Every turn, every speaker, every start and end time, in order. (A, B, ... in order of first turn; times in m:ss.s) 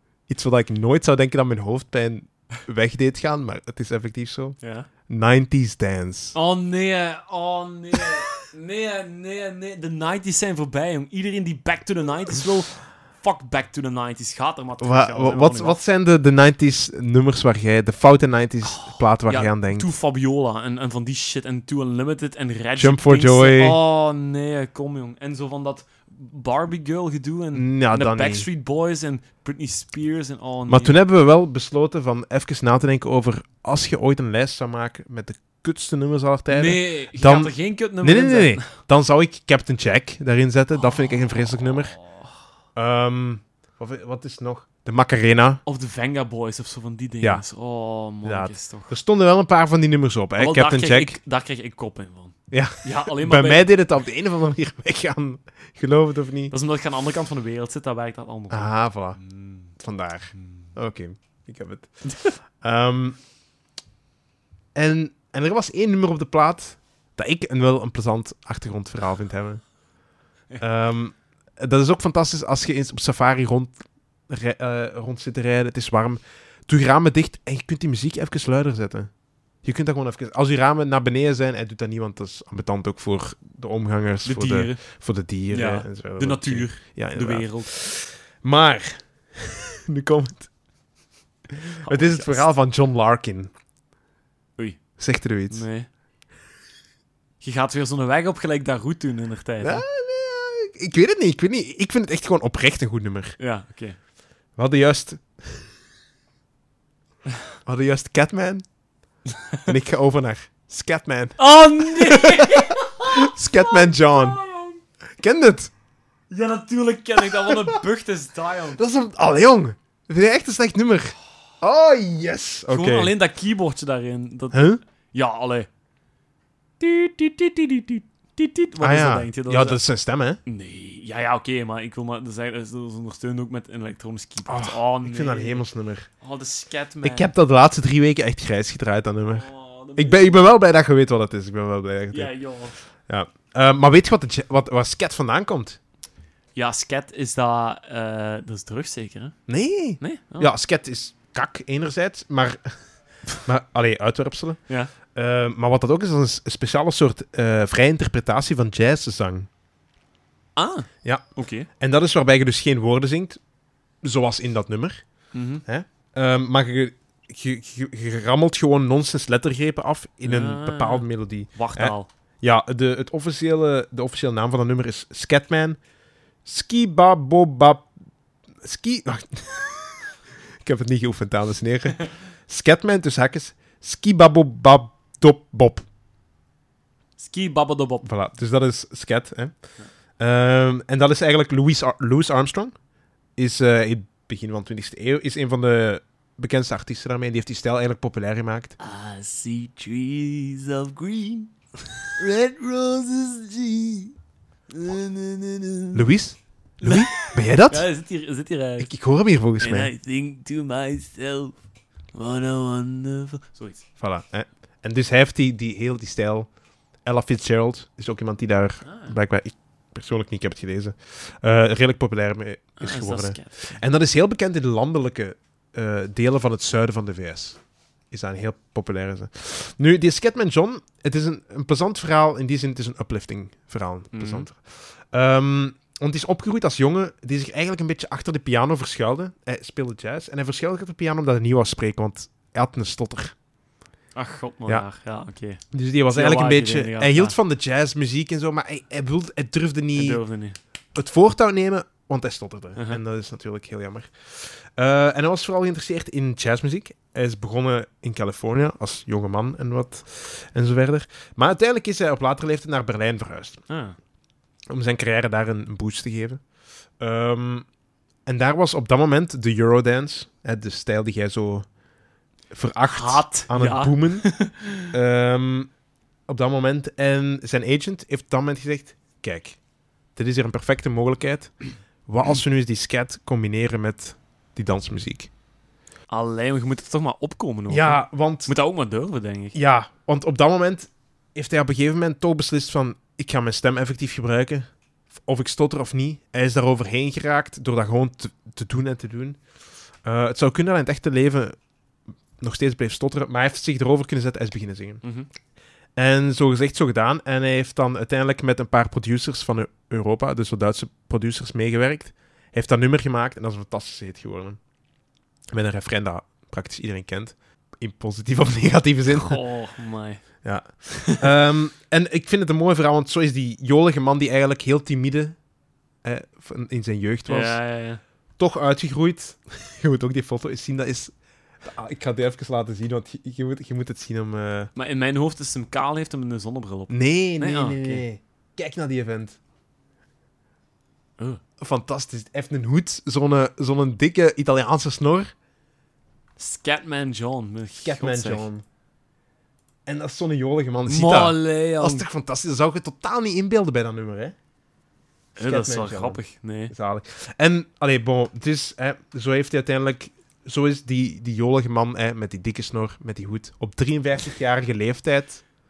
0:00.3-0:06.4 A
0:04.6-0:04.9 B
0:06.3-0:15.8 B
0:14.8-0:19.9 A
0:18.6-0:31.0 B
0:22.8-0:23.8 A
0:27.5-0:28.5 A
0:30.7-0:41.9 A
0:36.5-0:38.7 B
0:40.8-0:42.3 B
0:42.8-0:45.6 A
0:45.6-0:48.9 B
0:48.2-0:51.2 A
0:50.4-0:53.7 B
0:52.5-0:56.5 A
0:56.5-0:59.7 B
0:58.5-0:59.2 A
0:59.8-1:01.9 A
1:00.4-1:00.7 B
1:02.6-1:03.2 A
1:04.7-1:09.6 A
1:10.6-1:13.7 A
1:14.3-1:19.1 A
1:19.6-1:30.5 A
1:24.2-1:24.8 B
1:25.5-1:27.7 B
1:31.8-1:32.5 B
1:31.8-1:33.5 A
1:35.0-1:35.7 A
1:35.5-1:35.9 B
1:37.4-1:39.8 B
1:39.6-1:43.4 A
1:43.4-1:44.0 B
1:44.6-1:45.4 A
1:47.6-1:48.6 A
1:49.6-1:54.4 A
1:51.4-1:54.8 B
1:55.2-1:55.7 A
1:56.3-1:58.8 B
1:57.2-1:57.8 A
1:58.7-2:03.1 A
2:02.7-2:05.7 B
2:04.5-2:04.8 A
2:06.8-2:09.8 B
2:08.8-2:10.4 A
2:10.4-2:15.6 B
2:14.4-2:16.1 A
2:16.2-2:17.3 B
2:17.0-2:22.3 A
2:19.3-2:20.4 B
2:22.1-2:22.8 B
2:23.1-2:25.8 A
2:26.5-2:29.3 B
2:29.5-2:32.7 A
2:30.0-2:30.5 B
2:33.4-2:34.6 A
2:34.7-2:34.9 B
2:35.1-2:39.5 A
2:40.6-2:41.7 B
2:41.8-2:43.4 A
2:44.0-2:45.0 A
2:45.3-2:45.6 B
2:45.6-2:55.8 A
2:50.2-2:52.1 B
2:56.4-2:57.8 A
2:58.6-3:00.1 A
3:00.6-3:05.8 A
3:07.2-3:08.1 B
3:08.0-3:09.5 A
3:10.2-3:12.7 A
3:13.4-3:18.7 A
3:18.8-3:21.5 B
3:22.2-3:24.1 B
3:24.7-3:26.1 B
3:25.9-3:27.8 A
3:26.8-3:28.9 B
3:28.8-3:29.9 A
3:29.6-3:31.6 B
3:32.1-3:33.8 B
3:34.0-3:36.5 A
3:37.0-3:47.6 A
3:38.8-3:39.2 B
3:42.8-3:43.8 B
3:48.1-4:03.3 A
3:54.1-3:54.4 B
4:04.1-4:07.4 B
4:05.7-4:10.2 A
4:09.9-4:10.6 B
4:10.9-4:23.6 A
4:12.8-4:13.0 B
4:23.7-4:24.0 B
4:24.7-4:26.4 A
4:27.0-4:27.6 A
4:28.2-4:31.6 A
4:32.5-4:34.3 A
4:32.8-4:34.9 B
4:34.9-4:35.7 A
4:36.3-4:39.6 A
4:40.2-4:41.5 A
4:42.0-4:45.3 A
4:46.1-4:49.5 B
4:47.7-4:48.5 A
4:49.5-4:54.6 A
4:55.2-4:59.4 A
5:00.0-5:01.6 A
5:02.4-5:05.0 A
5:05.0-5:05.3 B
5:06.0-5:14.6 A
5:15.5-5:19.4 A
5:19.1-5:20.2 B
5:20.4-5:25.4 A
5:20.9-5:21.3 B
5:26.0-5:27.6 A
5:27.3-5:28.0 B
5:28.4-5:34.7 A
5:34.8-5:38.0 B
5:36.9-5:39.4 A
5:41.6-5:45.3 A
5:46.4-5:48.5 B
5:47.8-5:48.6 A
5:49.8-5:54.3 A
5:50.8-5:52.0 B
5:55.4-6:05.4 A
5:55.4-5:56.7 B